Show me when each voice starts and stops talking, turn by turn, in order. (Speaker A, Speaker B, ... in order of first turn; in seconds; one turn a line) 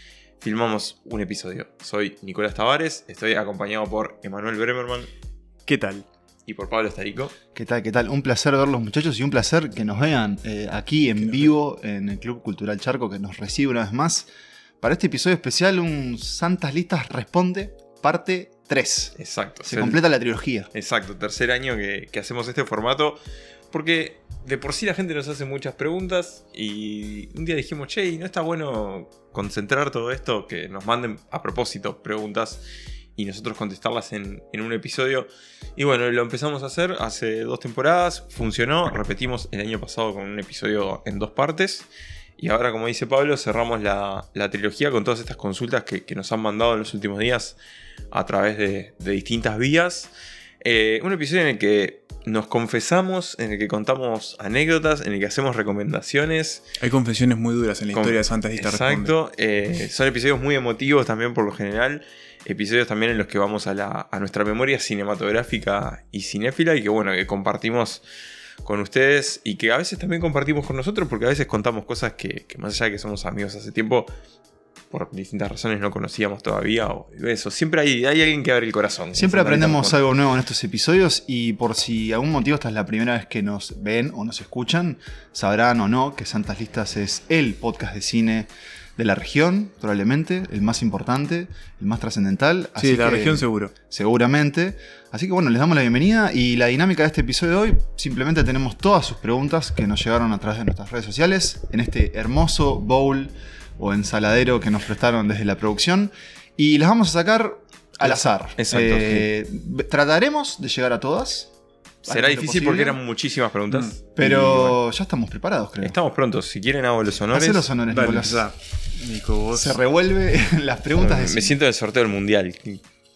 Speaker A: 0.4-5.1
Speaker B: 5.7-6.0
Speaker A: 6.5-7.3
Speaker C: 7.5-14.3
Speaker C: 14.8-20.7
Speaker A: 19.2-20.0
Speaker A: 20.7-23.2
Speaker A: 23.7-32.6
Speaker A: 33.1-47.6
Speaker A: 48.1-56.6
Speaker B: 56.8-59.1
Speaker A: 57.9-68.0
Speaker A: 68.6-74.1
Speaker A: 74.9-80.0
Speaker C: 79.1-111.5
Speaker B: 92.8-93.7
Speaker A: 108.0-109.3
Speaker C: 112.0-113.0
Speaker A: 112.0-114.8
Speaker B: 113.7-114.0
Speaker C: 114.2-116.0
Speaker A: 115.8-117.6
Speaker C: 117.3-118.5
Speaker B: 117.9-119.8
Speaker C: 119.5-121.5
Speaker A: 121.0-122.8